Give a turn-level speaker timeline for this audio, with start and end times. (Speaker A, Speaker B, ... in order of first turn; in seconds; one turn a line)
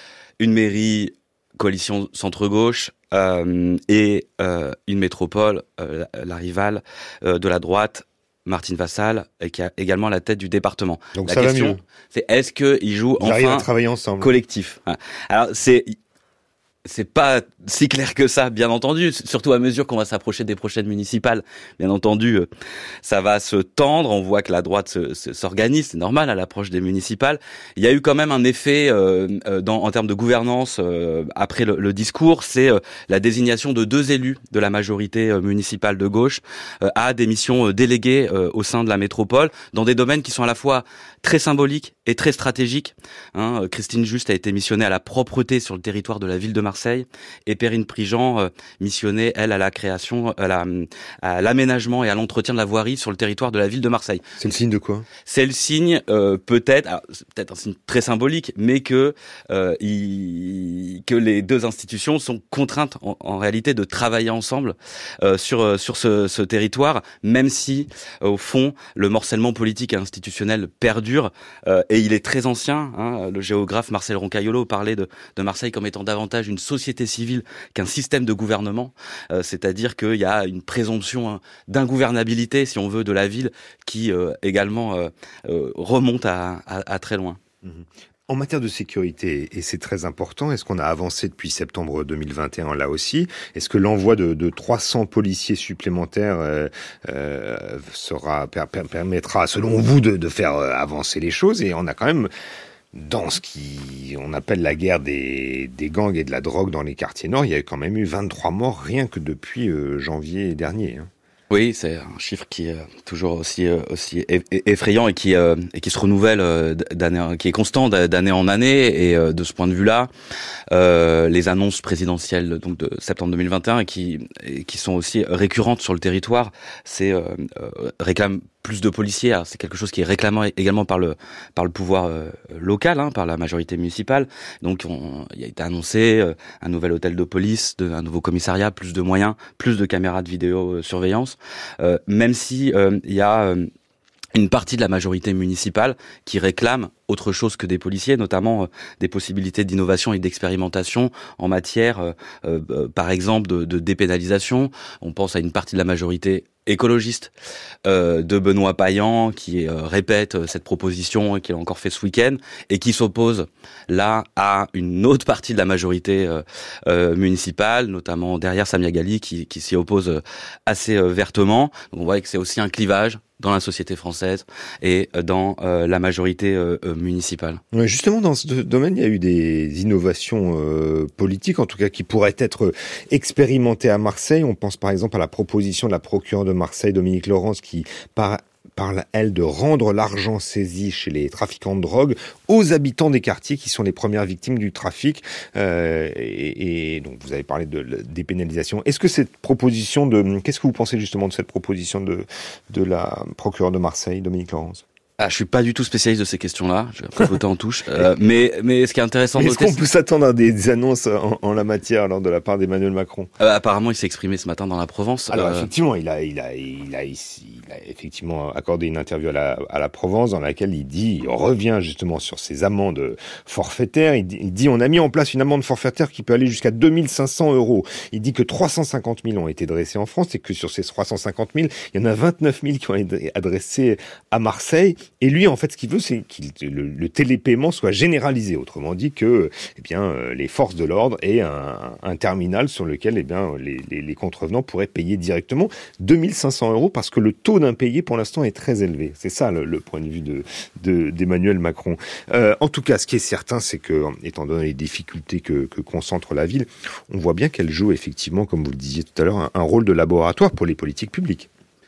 Speaker A: 0.4-13.7
Speaker B: 11.2-11.8
Speaker B: 13.2-14.3
Speaker A: 14.2-15.9
Speaker A: 16.9-22.5
Speaker A: 23.0-54.6
Speaker B: 54.4-55.1
Speaker A: 55.3-87.4
Speaker B: 87.6-102.3
Speaker B: 102.9-111.1
Speaker A: 111.5-120.1
Speaker A: 120.7-143.7
Speaker A: 144.3-157.3
Speaker A: 157.8-177.6
Speaker B: 177.7-204.8
Speaker A: 205.2-209.8
Speaker B: 209.4-213.3
Speaker A: 213.4-215.7
Speaker B: 215.3-261.5